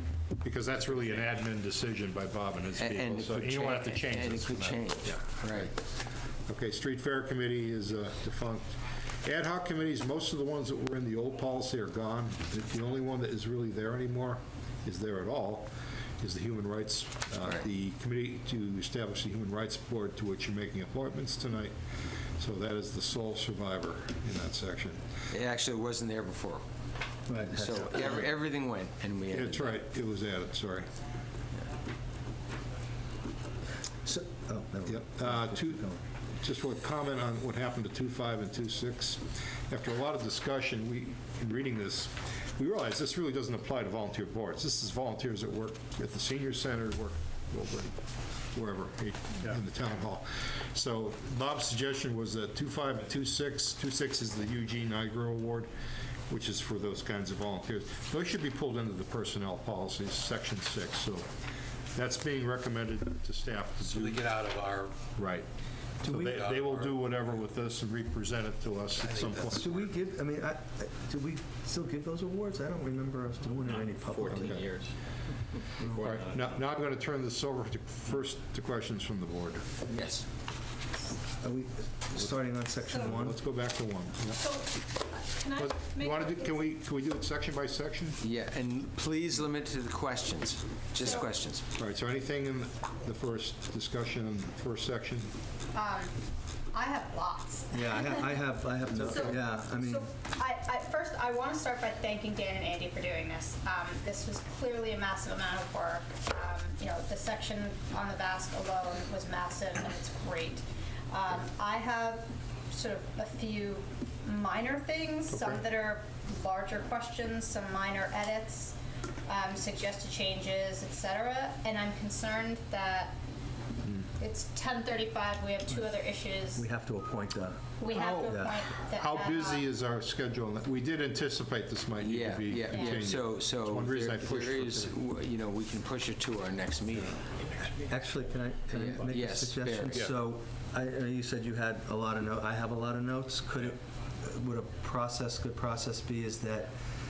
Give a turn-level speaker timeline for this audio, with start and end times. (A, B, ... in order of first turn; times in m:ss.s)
0:00.4-0:05.7 A
0:02.8-0:05.7 B
0:06.5-0:08.7 A
0:09.2-0:15.7 A
0:16.2-0:21.7 A
0:22.4-0:25.0 A
0:25.3-0:26.6 B
0:27.3-0:28.3 C
0:27.5-0:29.8 B
0:29.3-0:30.9 A
0:34.1-0:36.0 C
0:34.9-0:47.9 A
0:48.5-0:55.7 A
0:56.3-1:01.3 A
1:02.0-1:04.2 A
1:03.8-1:05.1 D
1:05.2-1:05.5 A
1:06.0-1:06.4 C
1:06.0-1:09.7 A
1:06.1-1:07.0 D
1:09.0-1:09.9 D
1:09.4-1:14.6 C
1:13.6-1:14.9 E
1:14.3-1:14.7 A
1:15.6-1:16.6 E
1:15.9-1:19.7 A
1:19.9-1:20.2 B
1:21.4-1:23.4 C
1:22.9-1:23.2 F
1:23.0-1:24.4 A
1:24.3-1:26.7 F
1:25.6-1:28.2 A
1:28.2-1:31.6 B
1:31.0-1:31.3 F
1:31.8-1:35.3 A
1:35.7-1:36.1 F
1:36.7-1:38.1 F
1:37.7-1:40.1 C
1:39.0-1:58.8 F
1:55.3-1:55.6 A
1:59.3-2:03.2 F
2:04.2-2:06.6 F
2:06.6-2:08.6 C
2:07.8-2:09.7 F
2:07.9-2:08.3 A
2:08.9-2:14.9 A
2:12.0-2:17.2 B
2:12.7-2:13.1 F
2:17.9-2:26.7 C
2:18.7-2:20.1 B